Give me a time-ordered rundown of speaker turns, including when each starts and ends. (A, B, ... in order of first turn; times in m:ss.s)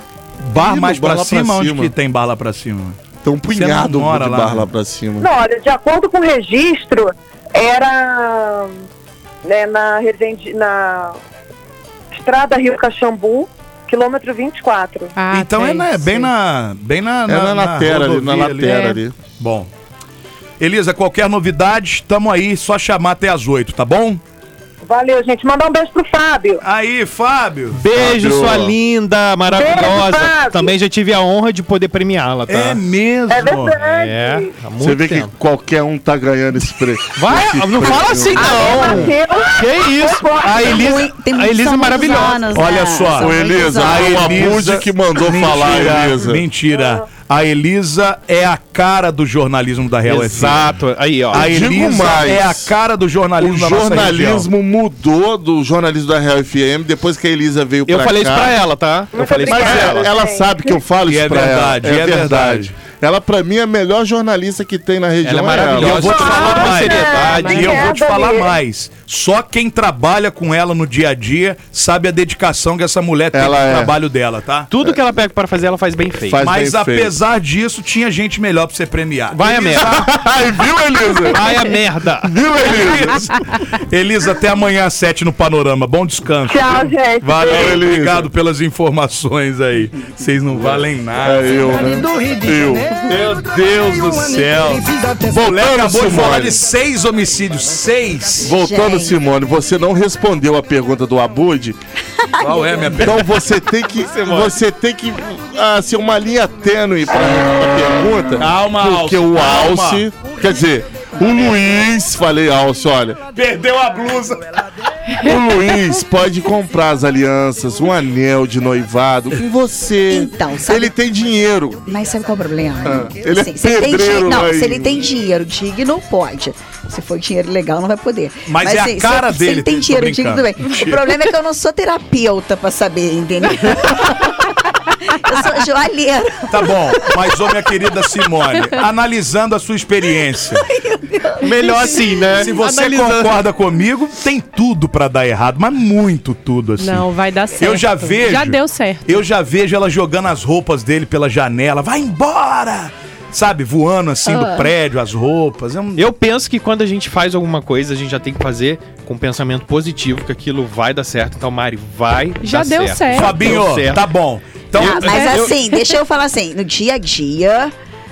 0:00.4-0:03.0 A
0:00.6-0:01.9 B
0:03.2-0:05.3 B
0:03.5-0:04.7 A
0:05.2-0:08.8 C
0:09.4-0:11.2 C
0:12.1-0:15.2 C
0:15.2-0:16.3 D
0:15.3-0:19.7 A
0:17.3-0:19.1 B
0:18.6-0:19.0 D
0:20.6-0:24.2 A
0:24.8-0:26.6 C
0:26.6-0:27.8 A
0:27.7-0:32.8 E
0:27.9-0:28.7 B
0:29.5-0:30.7 C
0:32.5-0:33.8 A
0:33.3-0:34.6 C
0:33.9-0:35.3 E
0:34.8-0:39.1 B
0:37.1-0:42.5 E
0:38.3-0:41.0 C
0:40.6-0:44.5 F
0:42.5-0:50.7 A
0:43.2-0:46.4 B
0:46.7-0:47.0 C
0:50.0-0:51.6 E
0:51.3-0:52.7 B
0:51.3-0:54.5 A
0:53.4-0:58.6 B
0:57.9-1:00.1 E
0:59.1-1:00.8 C
0:59.5-1:06.2 B
1:01.0-1:02.7 A
1:05.2-1:07.9 E
1:05.7-1:14.7 A
1:06.0-1:08.5 C
1:13.3-1:13.9 B
1:14.7-1:16.5 E
1:16.2-1:17.1 B
1:16.4-1:20.0 A
1:19.3-1:20.1 E
1:19.8-1:21.7 B
1:21.3-1:22.3 E
1:22.2-1:23.4 B
1:22.6-1:32.3 A
1:26.4-1:27.7 C
1:27.4-1:28.3 B
1:30.5-1:33.1 B
1:32.9-1:38.4 A
1:33.9-1:34.4 B
1:35.2-1:36.6 B
1:38.4-1:41.8 B
1:38.4-1:39.2 F
1:42.3-1:42.9 F
1:42.4-1:43.3 A
1:42.9-1:53.3 B
1:44.0-1:44.6 E
1:48.4-1:50.0 A
1:53.3-1:54.6 A
1:55.2-2:01.8 B
2:00.1-2:00.9 F
2:01.8-2:17.1 F
2:02.8-2:05.0 B
2:08.5-2:11.1 A
2:16.5-2:20.7 A
2:20.6-2:21.9 F
2:21.4-2:23.3 E
2:21.6-2:23.3 D
2:22.3-2:27.1 A
2:26.8-2:29.2 D
2:27.6-2:36.0 A
2:34.3-2:34.7 D
2:36.0-2:44.0 E
2:42.4-2:43.6 D
2:43.1-2:45.5 A
2:44.8-2:45.5 E
2:44.8-2:47.7 F
2:45.1-2:45.9 D